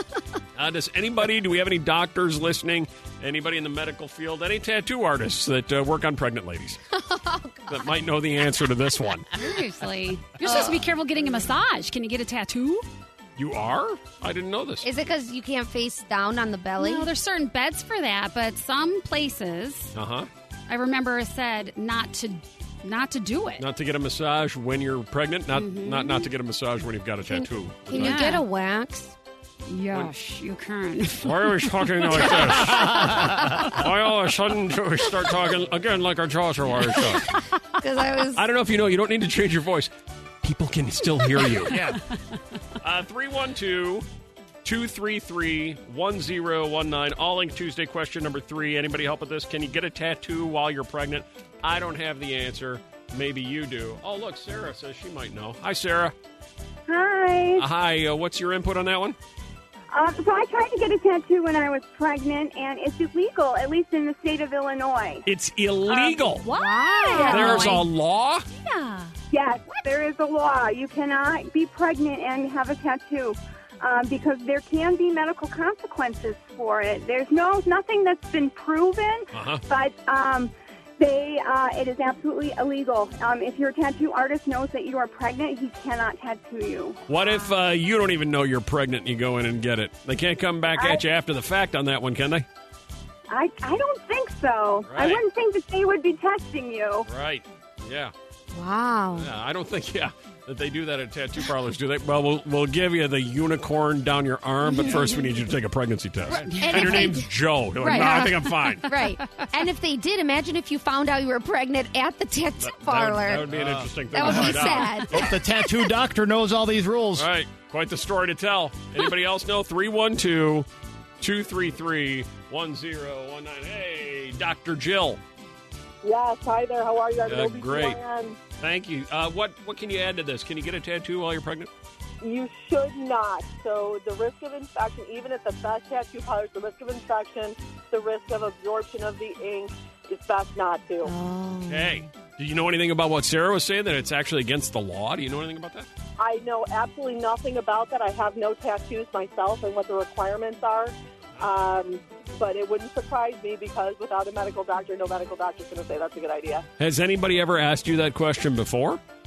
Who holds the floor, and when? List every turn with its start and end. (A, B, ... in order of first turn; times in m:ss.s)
0:00.5-0:06.8 A
0:06.9-0:07.9 B
0:07.7-0:09.3 A
0:09.3-0:12.8 C
0:10.4-0:11.5 B
0:13.4-0:14.9 A
0:14.8-0:17.1 B
0:16.8-0:19.9 C
0:19.9-0:20.3 A
0:20.7-0:23.6 C
0:23.6-0:28.3 A
0:25.5-0:26.3 C
0:27.3-0:29.1 B
0:27.9-0:28.4 C
0:29.6-0:31.5 C
0:31.2-0:37.3 A
0:32.2-0:32.5 C
0:32.2-0:32.6 B
0:32.7-0:33.5 D
0:37.8-0:38.4 B
0:38.3-0:39.9 A
0:40.4-0:41.8 A
0:41.6-0:42.0 D
0:42.8-0:44.0 A
0:44.6-0:56.1 A
0:56.9-0:57.6 E
0:57.6-0:59.2 A
0:59.9-1:05.2 E
1:05.2-1:06.5 A
1:06.4-1:07.8 B
1:06.4-1:07.9 C
1:07.1-1:08.4 A
1:08.5-1:09.1 C
1:09.3-1:20.5 E
1:19.3-1:19.6 A
1:21.0-1:27.0 E
1:27.1-1:32.4 A
1:33.3-1:37.0 E
1:34.8-1:35.2 A
1:37.0-1:38.1 A
1:38.5-1:39.3 B
1:39.1-1:49.0 A
1:44.7-1:45.0 B
1:46.3-1:53.5 B
1:46.4-1:47.2 C
1:48.9-1:49.5 C
1:52.6-1:55.4 A
1:53.4-1:57.3 D
1:54.1-1:55.9 B
1:57.2-2:00.7 A
2:01.2-2:05.2 A
2:06.0-2:08.4 F
2:07.3-2:08.0 A
2:08.6-2:11.7 A
2:12.2-2:21.1 F
2:21.0-2:22.0 B
2:21.6-2:25.9 A
2:26.2-2:36.6 F
2:36.8-2:39.0 A